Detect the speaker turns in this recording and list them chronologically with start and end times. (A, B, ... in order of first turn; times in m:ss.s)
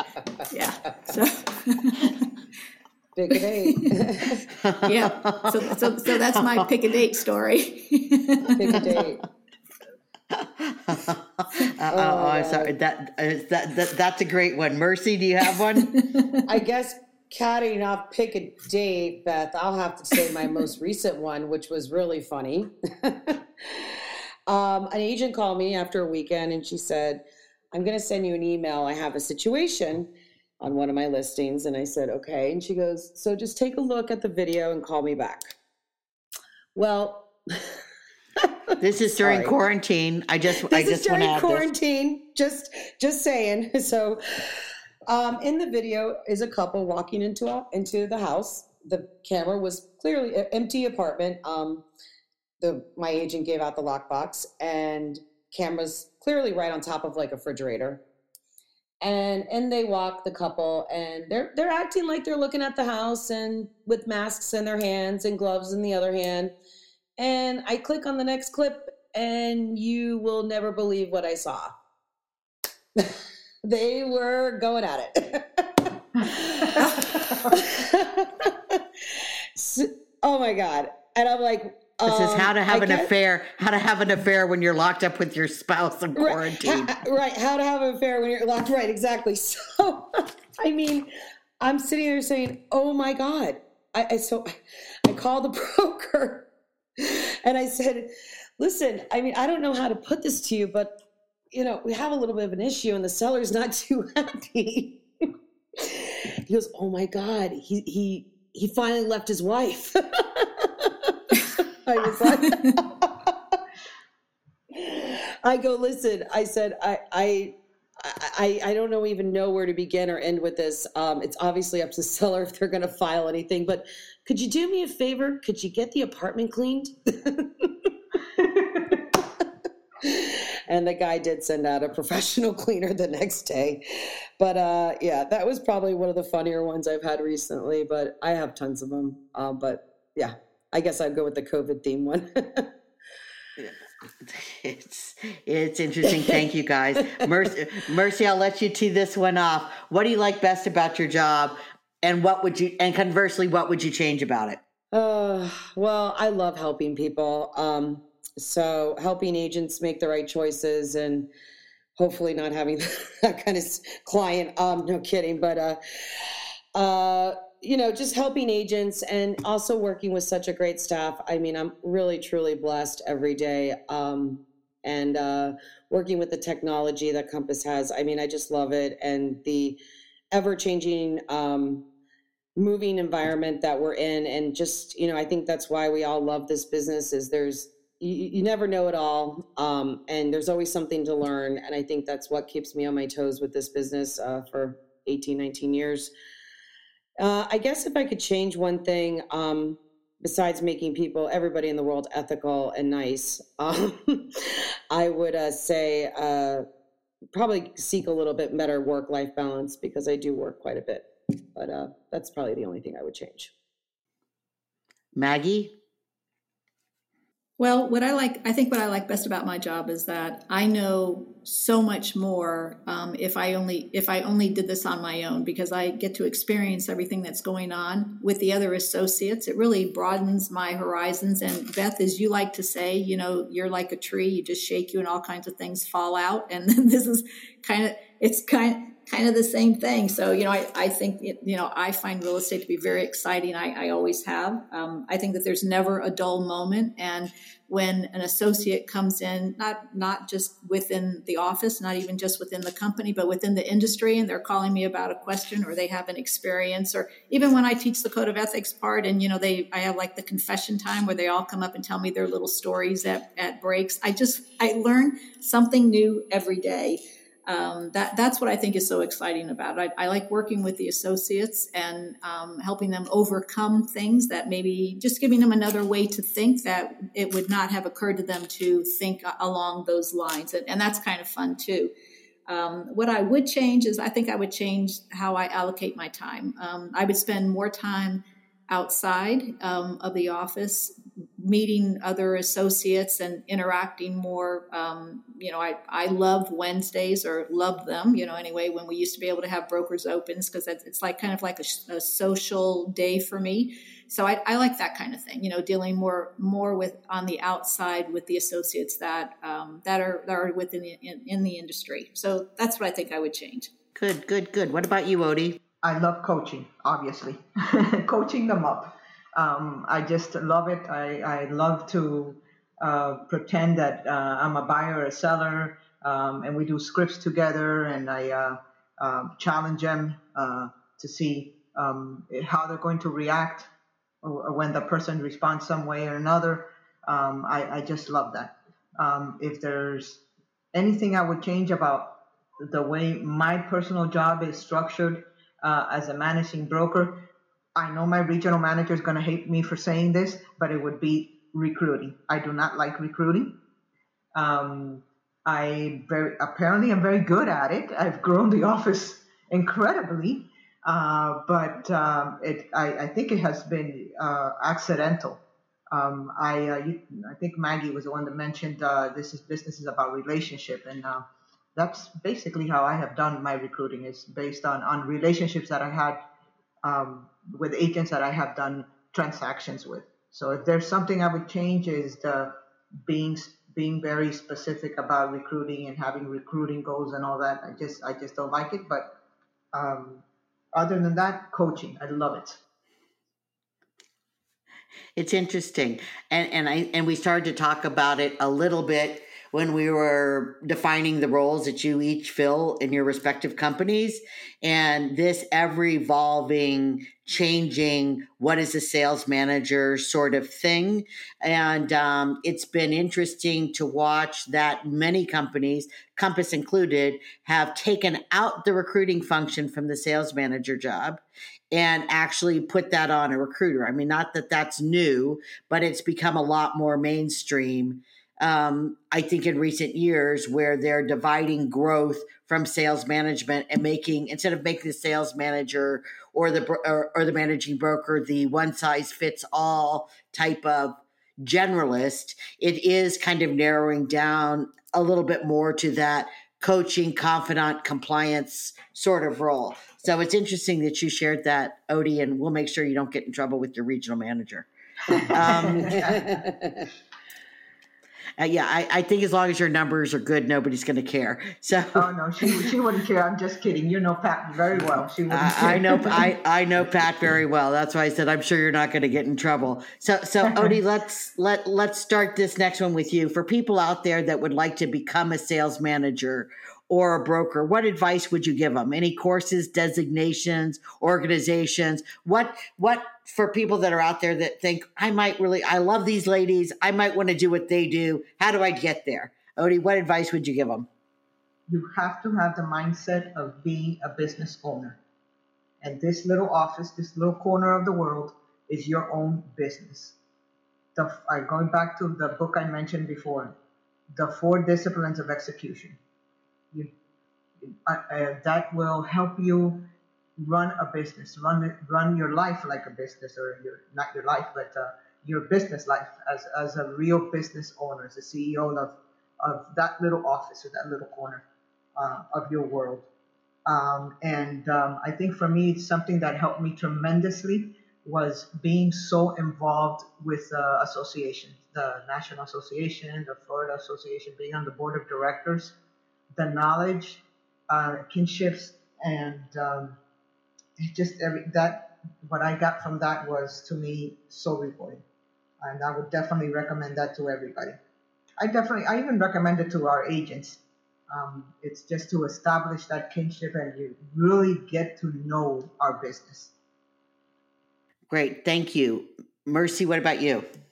0:00.5-0:02.3 A
0:03.2-0:04.5 B
0:04.6-0:06.7 C
0:04.8-0:08.9 A
0:08.6-0:09.2 B
0:10.3-0:16.0 C
0:11.9-0:12.7 B
0:15.9-0:16.4 A
0:16.5-0:30.1 B
0:30.6-0:35.6 B
0:36.8-0:37.8 B
0:38.4-0:39.5 B
0:38.8-0:41.7 C
0:40.6-0:51.8 B
0:52.6-0:58.0 B
0:59.0-1:06.5 B
1:07.2-1:11.7 B
1:13.0-1:23.1 B
1:22.0-1:27.1 C
1:26.2-1:31.1 B
1:31.6-1:34.6 B
1:35.1-1:36.5 B
1:37.0-1:40.9 B
1:41.5-1:45.3 B
1:45.8-1:53.6 B
1:52.4-1:52.7 A
1:54.7-2:07.9 B
2:08.4-2:08.8 D
2:10.0-2:13.8 B
2:14.4-2:22.7 B
2:23.6-2:34.6 C
2:34.9-2:41.3 B
2:42.0-2:59.8 B
3:00.3-3:01.8 B
3:02.6-3:16.1 B
3:17.2-3:26.6 B
3:27.3-3:33.5 B
3:35.2-3:35.7 C
3:37.6-4:41.9 A
4:42.5-5:13.7 A
5:14.0-5:15.6 C
5:15.8-5:33.7 D
5:34.2-5:40.2 D
5:40.7-5:53.6 D
5:54.4-6:11.2 D
6:11.8-6:16.2 D
6:16.8-6:22.5 D
6:23.1-6:29.1 D
6:29.7-6:32.6 D
6:35.2-7:01.2 C
7:01.7-7:36.2 C
7:35.3-7:36.3 D
7:35.5-7:36.9 B
7:38.4-7:42.1 C
7:42.0-7:46.3 D
7:45.3-8:10.9 C
8:11.7-8:15.0 D
8:15.8-8:20.2 D
8:21.0-8:23.6 D
8:24.1-8:26.0 D
8:27.7-8:41.4 D
8:42.0-8:43.1 D
8:43.7-8:55.8 D
8:56.3-9:00.0 D
9:00.8-9:05.0 D
9:05.6-9:07.8 D
9:08.4-9:16.5 D
9:18.1-9:20.5 C